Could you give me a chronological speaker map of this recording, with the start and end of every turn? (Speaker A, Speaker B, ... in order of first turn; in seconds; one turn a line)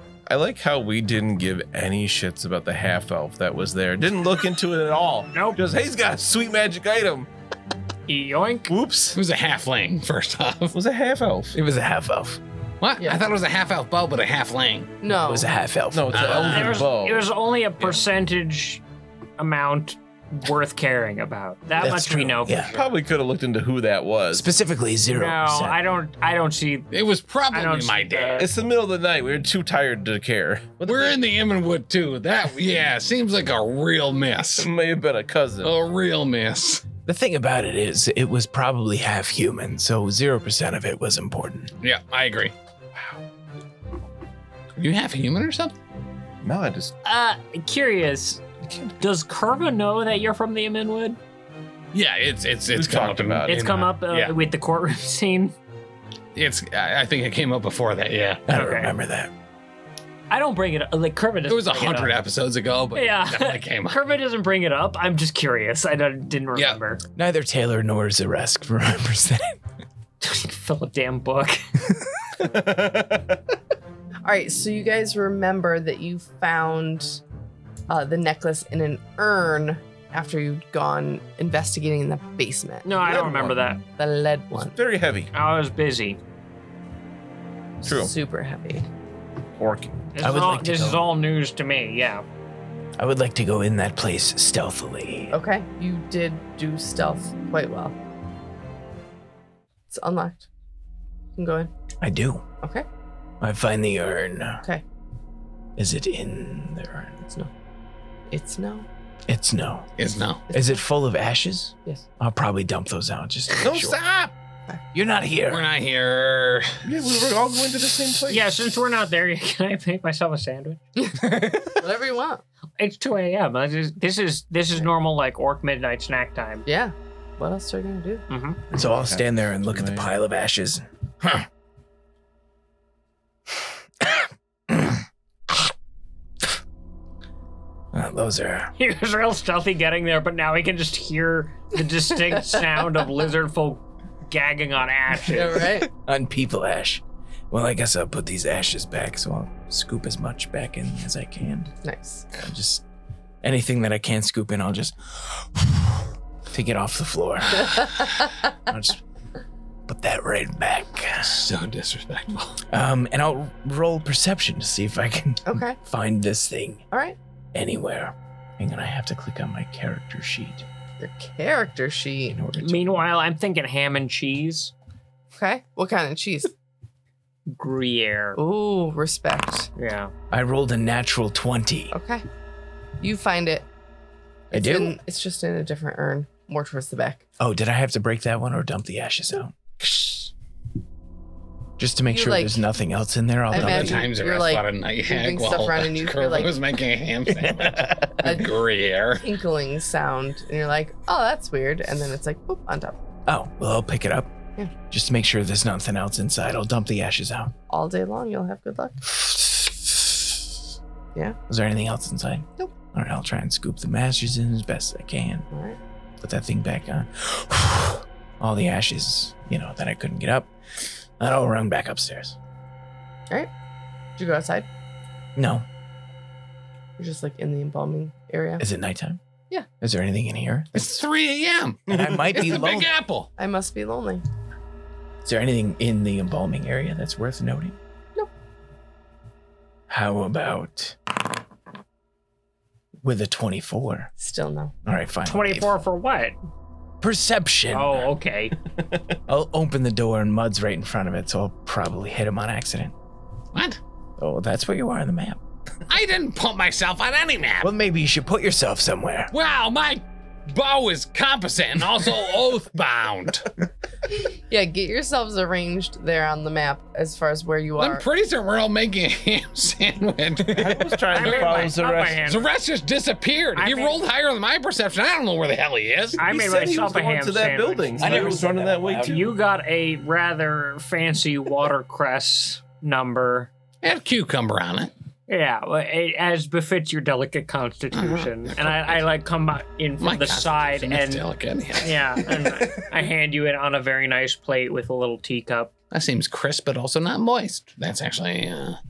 Speaker A: 0.2-7.3
Speaker B: 5.3-5.6
Speaker B: 8.1-8.8
Speaker A: 8.7-9.2
Speaker C: 9.1-10.8
Speaker A: 10.7-11.5
Speaker D: 11.5-12.4
Speaker C: 12.8-14.9
Speaker E: 15.0-15.5
Speaker D: 15.1-16.5
Speaker A: 15.9-17.3
Speaker C: 16.1-16.9
Speaker B: 16.5-18.8
Speaker B: 19.4-23.0
Speaker D: 21.8-22.7
Speaker A: 22.7-24.5
Speaker D: 24.3-25.8
Speaker B: 25.1-26.9
Speaker C: 26.9-28.5
Speaker B: 27.5-28.5
Speaker A: 28.4-31.1
Speaker C: 30.8-34.7
Speaker A: 34.6-35.7
Speaker C: 35.6-36.8
Speaker D: 37.0-41.7
Speaker C: 41.8-42.5
Speaker C: 44.8-45.7
Speaker A: 46.4-46.9
Speaker B: 47.0-48.4
Speaker A: 48.6-48.9
Speaker B: 49.0-51.2
Speaker C: 51.9-54.3
Speaker A: 52.7-53.8
Speaker B: 53.5-55.5
Speaker C: 56.3-58.4
Speaker D: 58.5-59.3
Speaker B: 58.5-58.9
Speaker B: 60.3-62.2
Speaker C: 61.5-64.0
Speaker B: 62.9-67.0
Speaker D: 67.2-69.6
Speaker B: 70.2-71.7
Speaker A: 72.4-73.4
Speaker E: 74.2-77.2
Speaker E: 77.9-82.9
Speaker B: 82.8-83.8
Speaker A: 83.0-83.6
Speaker E: 84.0-84.8
Speaker A: 84.6-85.3
Speaker B: 85.3-86.2
Speaker A: 87.8-88.1
Speaker E: 87.8-88.9
Speaker A: 89.6-89.9
Speaker B: 90.1-92.2
Speaker D: 90.2-91.1
Speaker D: 93.0-95.3
Speaker E: 95.3-98.0
Speaker E: 99.9-100.5
Speaker E: 101.3-101.7
Speaker D: 102.0-102.4
Speaker D: 103.4-104.6
Speaker D: 105.8-107.2
Speaker E: 107.2-107.5
Speaker E: 108.3-108.9
Speaker D: 109.3-109.9
Speaker C: 110.0-110.4
Speaker D: 110.5-114.0
Speaker A: 113.6-114.3
Speaker D: 114.9-115.7
Speaker C: 115.5-116.8
Speaker A: 116.8-118.5
Speaker B: 118.3-120.8
Speaker E: 121.0-122.4
Speaker D: 121.2-121.8
Speaker B: 122.8-126.7
Speaker E: 126.7-128.2
Speaker B: 128.3-128.6
Speaker A: 128.7-130.1
Speaker D: 128.7-131.4
Speaker D: 134.0-134.9
Speaker D: 137.9-138.7
Speaker B: 138.8-145.7
Speaker E: 145.2-145.9
Speaker D: 145.6-151.7
Speaker E: 151.8-152.2
Speaker D: 152.3-152.8
Speaker D: 153.4-158.0
Speaker D: 158.7-159.0
Speaker D: 159.9-161.5
Speaker C: 161.2-162.6
Speaker D: 162.7-166.8
Speaker E: 165.4-165.8
Speaker E: 166.9-167.2
Speaker D: 167.5-170.7
Speaker E: 171.0-172.4
Speaker D: 172.3-173.0
Speaker B: 172.6-174.7
Speaker E: 175.3-176.5
Speaker B: 177.5-178.4
Speaker E: 178.3-179.7
Speaker B: 179.8-180.1
Speaker D: 180.3-181.9
Speaker E: 181.9-182.2
Speaker E: 183.0-183.7
Speaker E: 184.5-187.2
Speaker D: 184.5-184.9
Speaker D: 187.4-190.0
Speaker D: 191.8-194.1
Speaker E: 192.1-192.6
Speaker E: 193.5-196.5
Speaker C: 193.5-199.3
Speaker D: 197.5-197.9
Speaker E: 198.2-198.5
Speaker E: 199.2-203.0
Speaker D: 203.3-204.3
Speaker D: 204.9-207.5
Speaker E: 207.7-209.0
Speaker D: 209.1-210.3
Speaker D: 211.5-215.5
Speaker E: 215.5-215.8
Speaker D: 216.2-220.5
Speaker D: 221.2-222.3
Speaker E: 224.2-224.7
Speaker D: 225.3-225.6
Speaker E: 227.0-228.6
Speaker D: 228.6-229.2
Speaker D: 229.8-231.0
Speaker C: 230.7-233.3
Speaker D: 231.9-232.9
Speaker E: 233.4-234.2
Speaker D: 235.2-237.8
Speaker D: 239.9-241.0
Speaker D: 243.0-244.1
Speaker E: 244.2-244.7
Speaker D: 244.8-245.7
Speaker B: 245.2-246.3
Speaker D: 247.0-248.1
Speaker B: 247.7-248.6
Speaker D: 249.3-252.9
Speaker C: 253.5-253.8
Speaker D: 254.2-255.4
Speaker C: 255.9-257.7
Speaker D: 257.6-259.3
Speaker C: 259.3-263.5
Speaker E: 264.5-268.0
Speaker C: 267.8-271.7
Speaker A: 270.4-272.2
Speaker B: 271.1-272.4
Speaker C: 272.2-276.2
Speaker B: 273.6-274.0
Speaker B: 276.2-278.4
Speaker A: 276.2-279.3
Speaker D: 278.0-279.3
Speaker C: 278.1-278.4
Speaker B: 279.0-283.5
Speaker C: 283.8-284.9
Speaker B: 285.3-291.2
Speaker C: 287.9-289.0
Speaker C: 290.0-292.2
Speaker B: 291.8-295.7
Speaker C: 295.9-298.8